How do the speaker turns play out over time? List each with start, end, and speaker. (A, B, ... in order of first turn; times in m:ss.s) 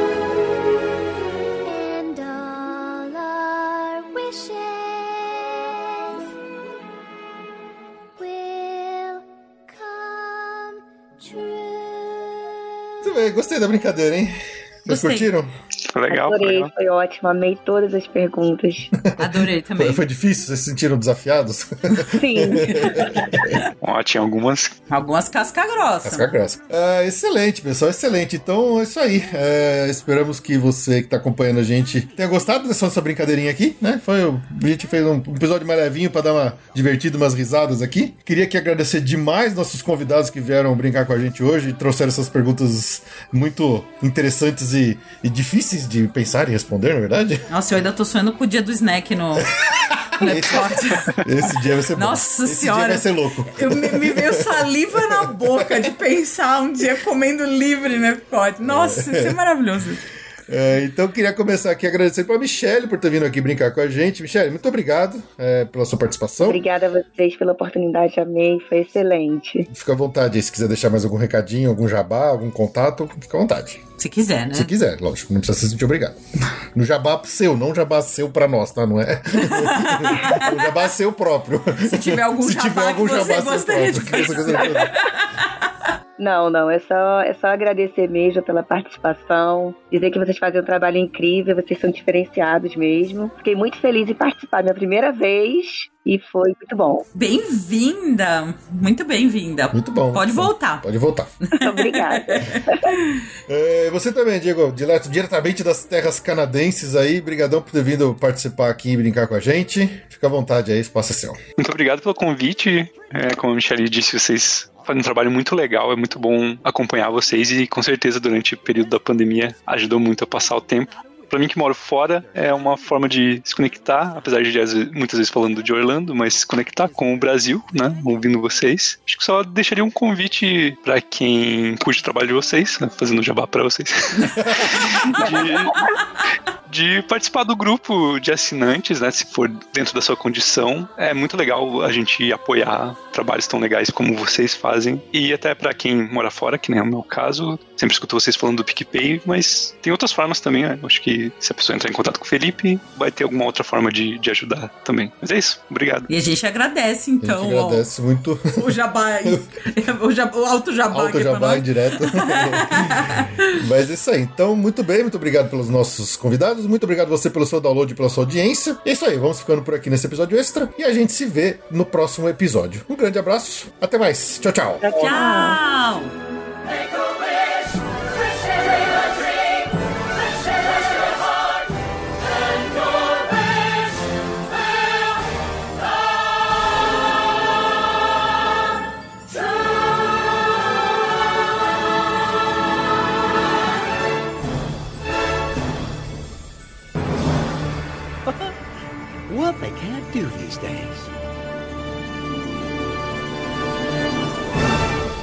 0:01.6-0:06.3 A
0:08.2-0:12.5 A
0:13.0-0:15.5 B
0:14.9-0:15.3 C
0:15.9-0:16.7 D
0:16.1-0:18.9 E
0:19.0-0:23.6 B
0:19.2-0:20.0 C
0:22.1-0:23.1 E
0:23.8-0:24.8 D
0:24.9-0:26.3 C
0:26.0-0:47.4 B
0:47.5-0:49.5 C
0:49.6-0:55.9 B
0:50.2-1:00.0 C
0:58.6-0:59.4 B
1:00.5-1:06.6 B
1:06.4-1:09.7 E
1:09.7-1:13.8 B
1:14.0-1:14.7 C
1:14.5-1:16.2 B
1:16.7-1:24.9 B
1:19.4-1:20.7 C
1:21.8-1:25.4 C
1:26.2-1:37.0 E
1:37.1-1:40.8 C
1:39.7-1:41.3 B
1:41.4-1:43.2 C
1:41.6-1:43.0 E
1:43.5-1:51.4 B
1:51.6-2:15.9 D
2:14.4-2:14.8 B
2:14.9-2:15.3 C
2:16.7-2:36.1 D
2:36.1-2:37.9 C
2:37.2-2:38.6 B
2:38.5-2:43.5 C
2:40.9-2:54.9 B
2:54.8-2:55.6 E
2:55.0-2:56.1 C
3:18.3-3:18.5 F
3:19.3-3:21.1 F